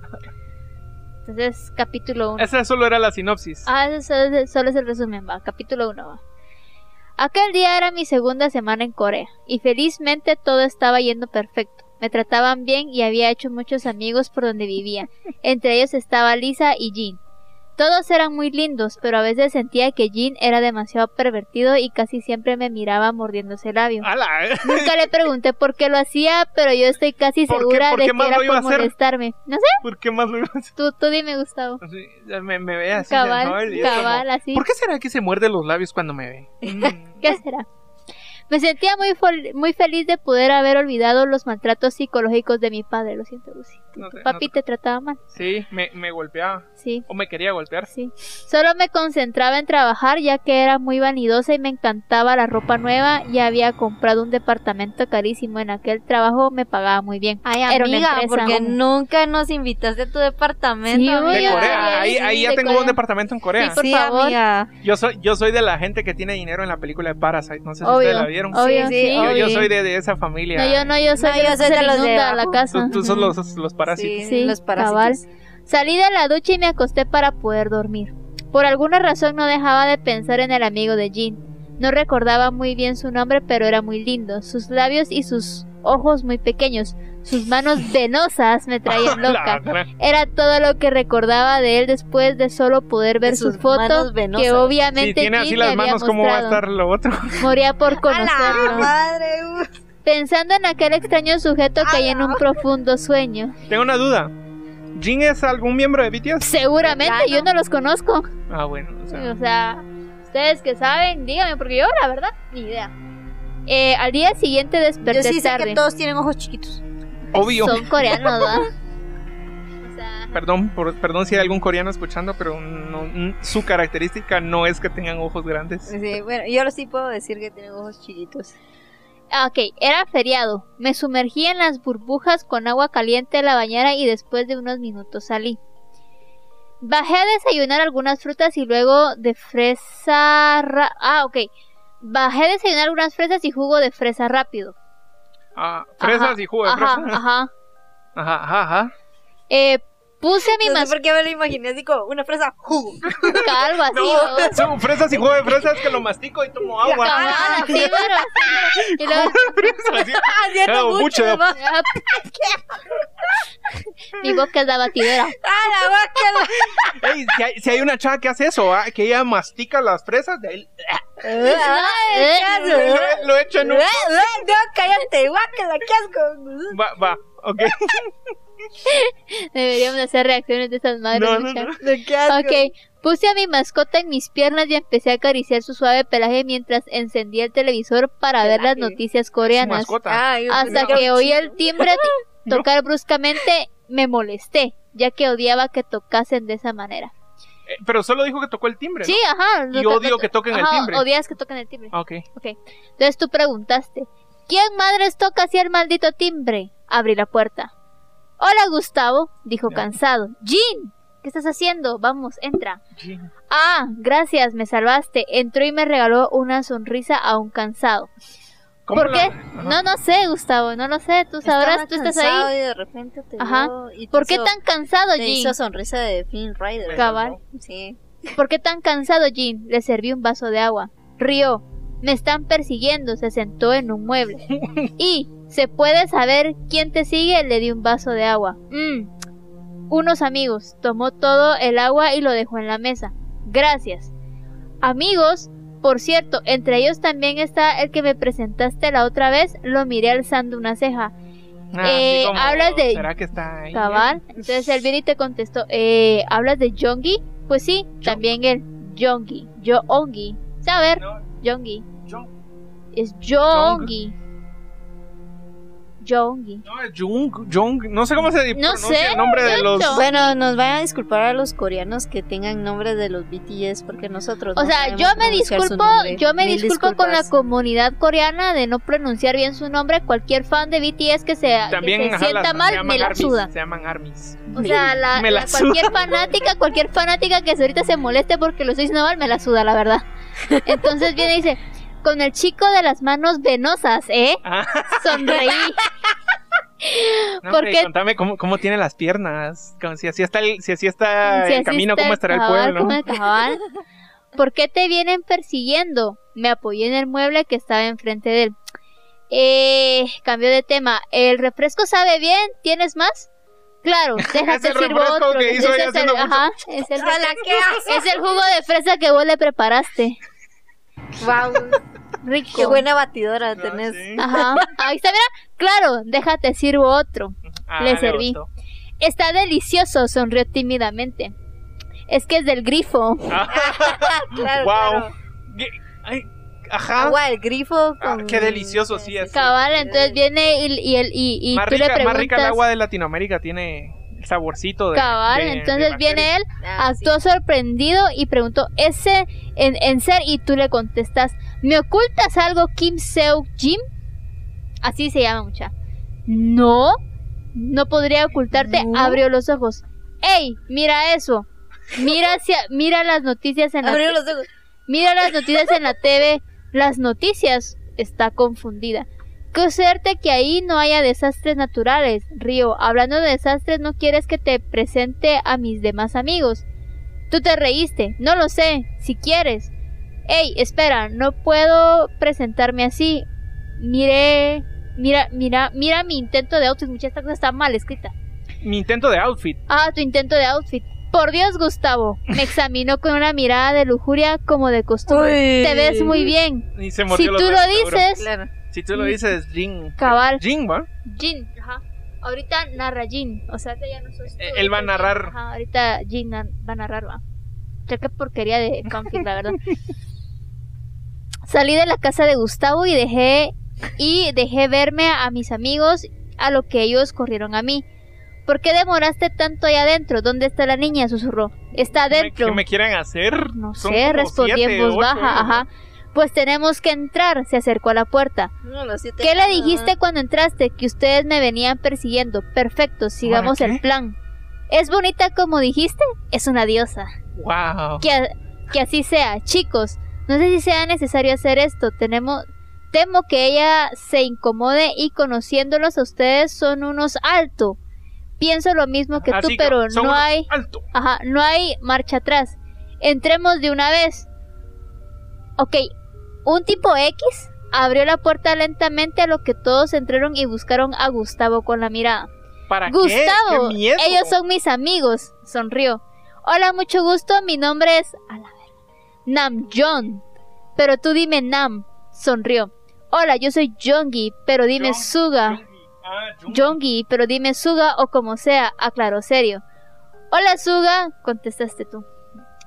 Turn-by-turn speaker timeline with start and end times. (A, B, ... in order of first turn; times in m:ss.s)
0:01.2-0:02.5 A
0:02.4-0:03.7 B
0:03.6-0:06.2 A
0:07.2-0:17.2 A
0:17.8-0:24.1 A
0:24.0-0:24.9 B
0:24.6-0:29.8 A
0:27.5-0:28.9 B
0:29.8-0:30.7 B
0:30.8-0:31.8 A
0:31.8-0:37.2 B
0:33.0-0:34.6 A
0:37.2-0:37.6 A
0:38.5-0:45.2 A
0:44.0-0:44.5 B
0:45.3-0:47.9 B
0:46.8-0:47.0 A
0:47.9-0:58.8 A
0:57.4-1:02.1 C
1:00.9-1:03.0 A
1:01.3-1:03.8 B
1:03.6-1:04.4 A
1:03.7-1:04.7 C
1:04.8-1:10.9 B
1:07.8-1:09.7 A
1:08.5-1:09.6 C
1:10.5-1:13.3 A
1:11.2-1:12.6 C
1:12.7-1:14.2 B
1:13.9-1:15.2 C
1:14.2-1:36.6 A
1:28.9-1:29.9 B
1:33.2-1:34.8 C
1:34.9-1:37.5 B
1:37.4-1:38.9 A
1:37.9-1:39.7 C
1:40.0-1:43.5 A
1:41.8-1:42.5 C
1:43.7-1:44.3 B
1:44.9-1:46.5 B
1:46.4-1:48.3 A
1:46.8-1:47.5 C
1:48.5-1:49.4 B
1:49.1-1:52.9 A
1:53.7-1:55.8 A
1:55.0-1:56.8 C
1:57.3-1:58.7 A
1:57.3-1:57.9 B
1:58.0-1:58.4 C
1:59.8-2:00.4 A
2:00.3-2:05.9 B
2:05.9-2:08.6 C
2:09.3-2:15.6 A
2:16.8-2:21.5 A
2:22.0-2:24.7 A
2:25.6-2:27.2 B
2:26.0-2:27.5 A
2:28.2-2:28.9 B
2:29.5-2:30.9 A
2:30.5-2:34.6 C
2:33.3-2:34.6 A
2:33.9-2:38.0 B
2:35.2-2:35.8 C
2:36.8-2:38.7 C
2:36.8-2:39.8 A
2:38.7-2:41.4 B
2:39.8-2:42.6 C
2:41.6-2:42.5 A
2:44.1-2:45.4 A
2:45.0-2:47.0 C
2:46.7-2:51.2 B
2:51.2-2:56.8 C
2:51.4-2:52.8 A
2:52.6-2:54.3 B
2:56.7-2:58.1 B
2:58.8-3:01.7 A
3:01.1-3:01.8 B
3:01.8-3:02.7 C
3:02.3-3:10.0 A
3:08.4-3:09.0 C
3:09.5-3:11.0 B
3:10.0-3:12.1 C
3:10.5-3:17.1 A
3:17.7-3:19.2 B
3:19.0-3:27.7 A
3:19.7-3:21.0 B
3:21.9-3:22.2 B
3:28.4-3:32.8 A
3:33.0-3:33.3 B
3:33.5-3:38.1 A
3:38.9-3:39.8 B
3:38.9-3:42.5 A
3:41.4-3:44.5 C
3:43.4-3:45.5 A
3:45.2-3:48.0 C
3:46.8-3:47.4 B
3:46.9-3:47.4 A
3:48.4-3:54.4 A
3:54.5-3:54.9 B
3:55.0-3:59.1 A
3:59.9-4:04.1 A
4:04.8-4:11.1 A
4:11.7-4:14.2 B
4:11.8-4:13.1 A
4:13.7-4:21.8 A
4:21.0-4:21.2 B
4:22.9-4:24.1 A
4:23.5-4:23.9 B
4:26.0-4:26.6 A
4:26.6-4:30.0 B
4:28.5-4:30.3 A
4:29.9-4:37.3 C
4:34.6-4:43.5 A
4:41.7-4:45.9 B
4:44.5-4:50.0 A
4:44.6-4:44.9 C
4:50.5-4:50.9 C
4:50.6-4:54.4 A
4:54.4-4:55.5 B
4:55.0-4:55.8 A
4:56.8-4:57.9 A
4:57.4-5:03.0 B
5:01.3-5:03.6 A
5:04.3-5:08.5 A
5:09.3-5:13.3 A
5:13.8-5:20.2 A
5:14.2-5:16.5 B
5:17.0-5:18.2 C
5:21.2-5:21.8 C
5:22.2-5:22.8 A
5:22.5-5:24.7 C
5:23.5-5:24.3 B
5:24.2-5:28.4 A
5:27.5-5:28.5 B
5:29.0-5:31.3 A
5:32.1-5:33.4 A
5:33.3-5:37.2 B
5:33.5-5:35.1 C
5:37.0-5:40.2 C
5:38.0-5:39.4 B
5:39.3-5:42.6 A
5:41.5-5:46.3 B
5:44.9-5:53.8 A
5:46.6-5:47.2 C
5:54.8-5:55.7 A
5:56.3-5:57.0 A
5:57.5-6:04.2 A
5:58.5-5:59.2 C
6:03.8-6:04.5 C
6:04.9-6:16.6 A
6:17.3-6:19.7 A
6:20.3-6:23.2 A
6:23.8-6:28.1 A
6:28.6-6:29.6 B
6:29.7-6:38.3 A
6:35.1-6:36.3 C
6:36.7-6:38.1 B
6:38.2-6:38.5 C
6:38.7-6:40.9 B
6:39.0-6:39.2 A
6:40.0-6:40.4 A
6:41.0-6:47.2 A
6:44.4-6:45.3 B
6:47.9-6:49.6 A
6:51.4-6:57.8 A
6:58.5-7:02.6 A
7:02.1-7:05.6 B
7:03.5-7:08.5 A
7:08.6-7:09.9 C
7:09.2-7:14.2 A
7:13.2-7:13.8 B
7:14.7-7:17.1 A
7:17.4-7:18.0 B
7:18.0-7:27.8 A
7:28.4-7:34.3 A
7:29.2-7:30.8 B
7:35.6-7:35.9 A
7:36.4-7:42.3 A
7:42.7-7:44.4 B
7:42.9-7:48.7 A
7:49.3-7:50.2 A
7:50.8-7:55.6 A
7:54.8-7:56.8 B
7:56.5-7:59.6 A
8:00.3-8:02.0 A